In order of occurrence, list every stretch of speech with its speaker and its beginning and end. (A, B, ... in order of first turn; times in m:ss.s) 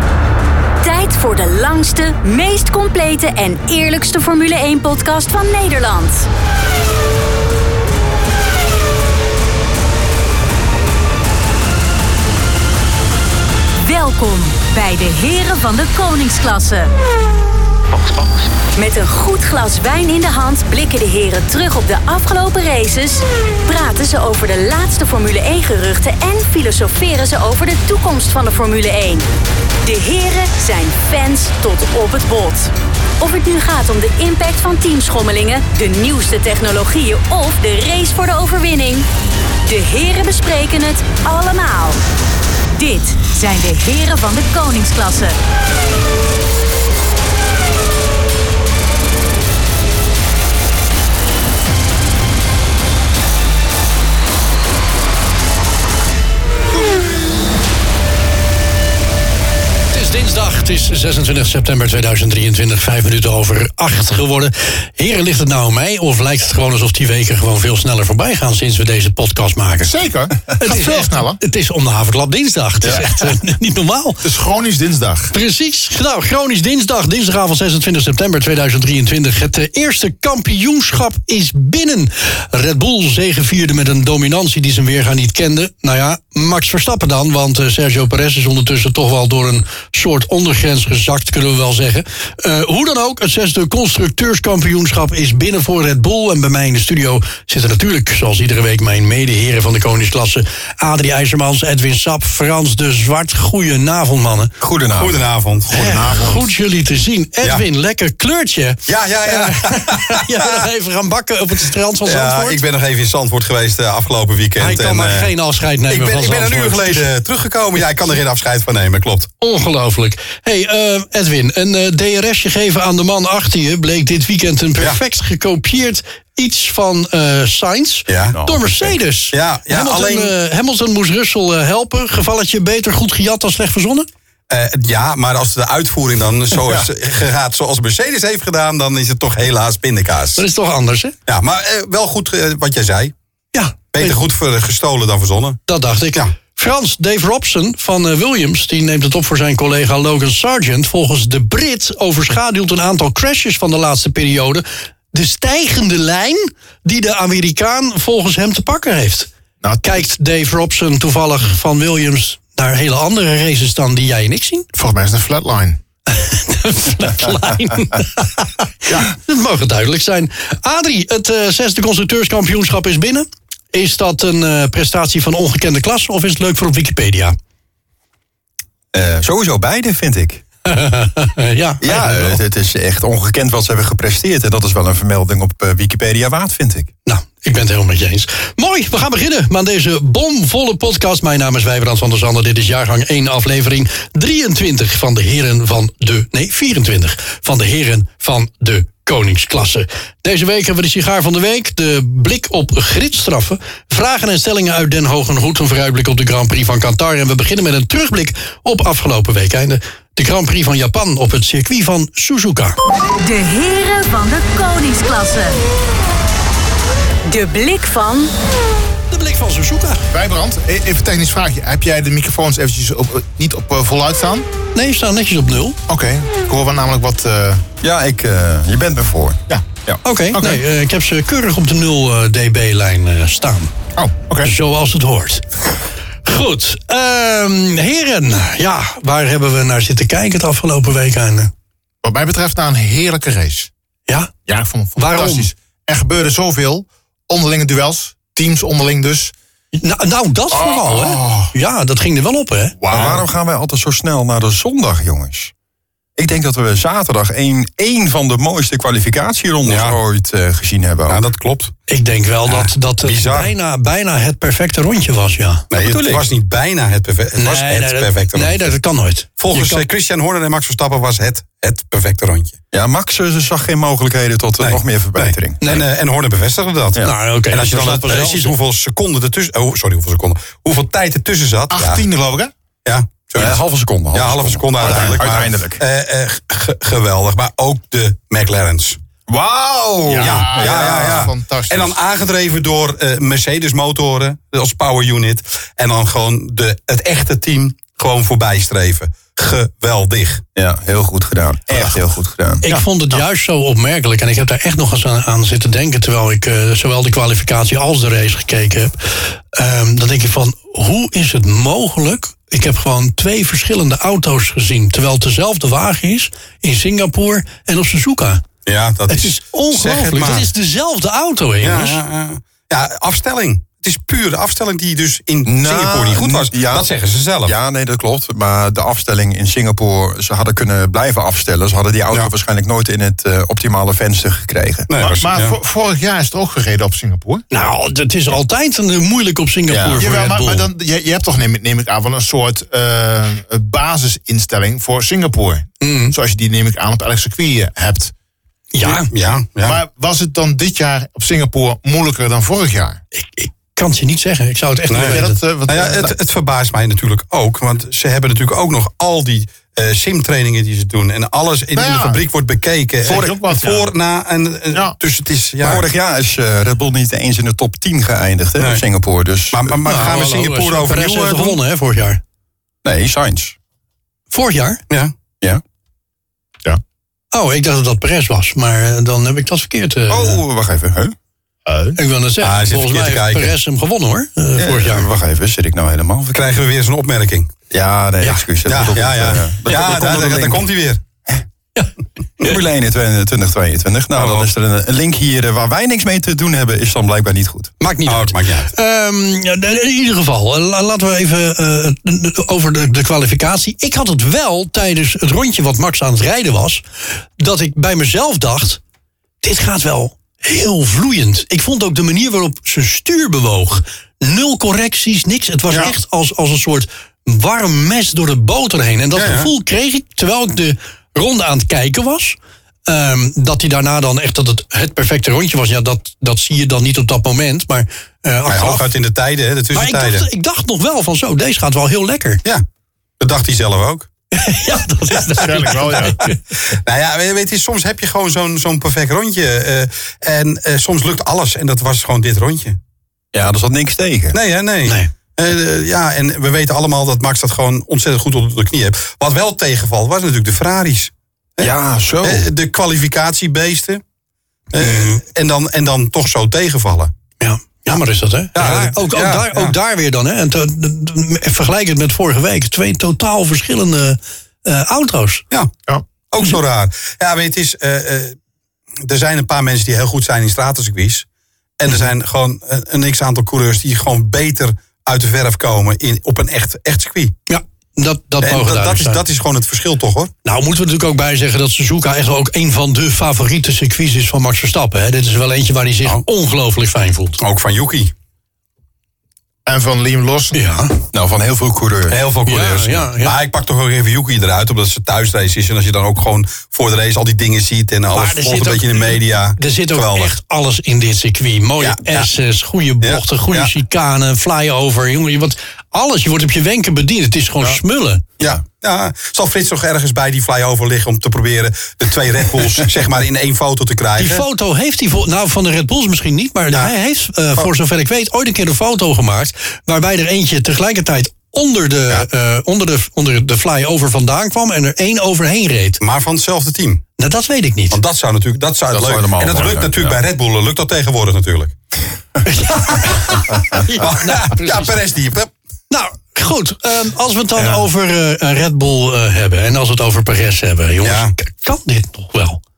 0:00.8-0:06.3 A
0:13.8-0:16.9 A
0:18.7-0:29.2 A
0:29.8-0:39.1 A
0:39.6-0:42.0 A
0:42.7-0:45.3 A
0:59.9-1:09.9 B
1:09.8-1:11.4 C
1:10.6-1:14.2 B
1:12.8-1:13.1 D
1:14.2-1:15.3 C
1:15.3-1:44.5 B
1:44.6-1:45.3 D
1:45.0-1:46.0 E
1:45.7-1:46.5 C
1:45.7-1:52.6 B
1:48.9-1:50.6 E
1:52.0-1:55.3 E
1:54.6-1:57.0 B
1:55.9-1:59.3 E
1:59.4-2:14.1 B
2:08.1-2:08.4 E
2:08.3-2:09.0 D
2:09.3-2:10.3 E
2:14.5-2:20.4 E
2:20.4-2:21.1 B
2:21.3-2:23.1 E
2:23.5-2:24.2 B
2:23.9-2:25.6 E
2:25.7-2:39.3 B
2:39.6-2:39.9 C
2:39.8-2:44.7 B
2:44.7-2:45.8 C
2:46.1-2:57.4 B
2:58.9-3:00.4 D
3:00.6-3:02.4 B
3:01.8-3:06.9 D
3:07.0-3:32.8 B
3:33.2-3:35.6 A
3:37.3-3:38.3 A
3:39.1-3:40.1 B
3:40.1-3:44.4 C
3:44.7-3:45.8 B
3:45.9-3:47.6 C
3:47.8-3:50.0 D
3:50.0-3:53.7 B
3:50.3-3:50.6 C
3:54.0-3:54.5 C
3:54.4-3:55.4 B
3:56.2-4:01.5 B
4:02.0-4:03.7 C
4:04.5-4:09.3 C
4:05.0-4:05.5 B
4:09.7-4:12.7 B
4:10.5-4:11.5 C
4:12.8-4:13.2 C
4:12.9-4:15.5 D
4:12.9-4:13.2 E
4:16.2-4:21.2 D
4:19.6-4:20.0 E
4:21.1-4:21.7 E
4:21.9-4:25.6 B
4:22.4-4:23.5 E
4:25.7-4:28.7 E
4:25.7-4:26.3 D
4:27.4-4:29.8 B
4:29.4-4:32.5 E
4:32.7-4:35.7 D
4:34.6-4:42.0 E
4:37.0-4:38.5 B
4:41.7-4:42.5 C
4:42.8-4:43.6 E
4:43.3-4:45.8 D
4:44.1-4:49.0 E
4:44.9-4:45.2 C
4:49.3-4:51.1 D
4:50.0-4:52.0 C
4:50.2-5:00.4 E
5:00.6-5:02.6 D
5:02.6-5:18.4 B
5:02.6-5:03.2 C
5:18.6-5:20.5 E
5:19.1-5:22.0 B
5:21.6-5:27.6 E
5:25.4-5:26.9 D
5:27.4-5:34.9 D
5:34.9-5:35.6 E
5:35.0-5:37.4 C
5:37.5-5:40.7 B
5:39.7-5:40.0 D
5:40.0-5:48.1 C
5:45.8-5:46.1 B
5:48.7-5:49.1 B
5:48.8-5:49.8 E
5:49.6-5:53.0 C
5:53.1-5:55.4 B
5:54.9-6:05.8 E
5:55.0-5:56.1 C
6:01.7-6:02.2 C
6:03.0-6:03.9 C
6:03.1-6:03.3 D
6:05.6-6:09.8 D
6:08.6-6:08.8 E
6:09.5-6:11.6 E
6:09.8-6:12.2 B
6:12.8-6:13.5 D
6:14.3-6:14.8 B
6:17.3-6:20.4 B
6:20.1-6:21.1 D
6:21.6-6:22.0 C
6:22.0-6:25.1 B
6:22.4-6:23.6 E
6:24.6-6:26.4 D
6:26.3-6:27.5 E
6:27.7-6:30.7 D
6:28.6-6:31.0 E
6:32.4-6:37.7 D
6:34.1-6:34.5 E
6:37.8-6:46.8 B
6:38.0-6:38.7 E
6:47.4-6:48.8 B
6:49.4-7:08.9 B
6:59.2-6:59.5 E
7:08.5-7:10.2 E
7:09.7-7:12.4 B
7:13.2-7:14.1 E
7:14.3-7:16.4 B
7:15.3-7:16.2 C
7:16.7-7:22.8 E
7:23.3-7:24.4 D
7:24.3-7:34.0 E
7:31.6-7:32.5 D
7:34.7-7:37.1 E
7:37.4-7:45.4 B
7:38.5-7:39.7 E
7:46.3-7:48.4 E
7:49.0-7:51.2 E
7:51.8-7:57.3 E
7:57.5-7:59.2 B
7:58.4-8:00.3 E
8:00.4-8:07.4 B
8:07.4-8:08.1 E
8:09.6-8:10.6 C
8:10.5-8:11.0 B
8:11.1-8:12.2 D
8:12.1-8:20.3 E
8:12.4-8:13.4 B
8:18.1-8:28.2 B
8:21.8-8:22.3 E
8:23.0-8:23.7 E
8:28.4-8:34.4 E
8:34.2-8:46.0 B
8:46.0-8:47.0 E
8:47.2-8:48.0 B
8:47.9-8:51.7 E
8:48.9-8:50.2 D
8:52.4-8:54.9 B
8:52.9-8:55.5 E
8:55.9-9:02.6 B
9:01.0-9:01.3 E